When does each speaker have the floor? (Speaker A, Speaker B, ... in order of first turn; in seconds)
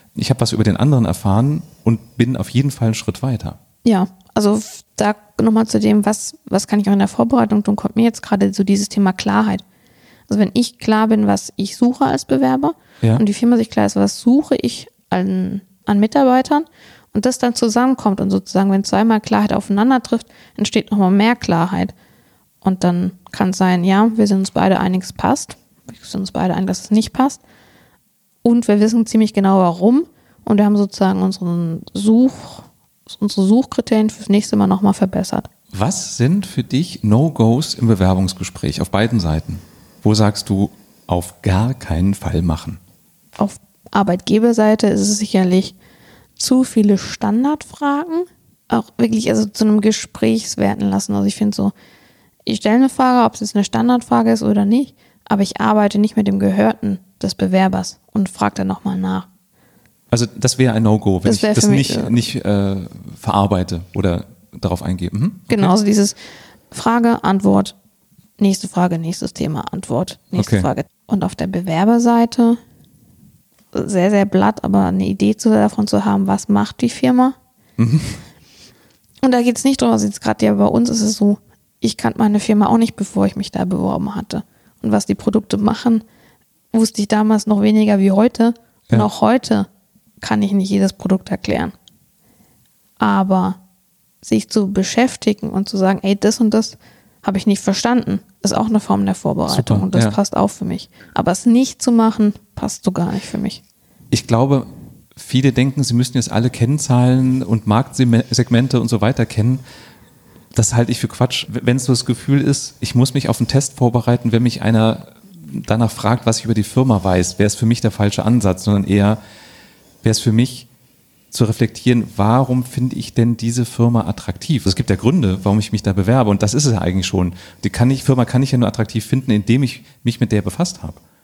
Speaker A: 0.1-3.6, 35.7-42.8, 60.1-65.7, 70.3-70.7, 77.8-78.2, 99.5-100.2, 104.1-109.6, 110.5-119.2, 120.0-120.7, 121.3-131.0
Speaker B: 3.8-9.6, 10.3-21.9, 22.6-27.4, 28.4-35.5, 43.4-45.7, 46.4-51.7, 52.5-59.3, 61.2-62.2, 65.5-66.2, 66.7-67.7, 68.4-72.6, 73.7-77.3, 79.2-86.0, 86.7-89.7, 90.2-91.7, 93.0-93.6, 94.2-103.6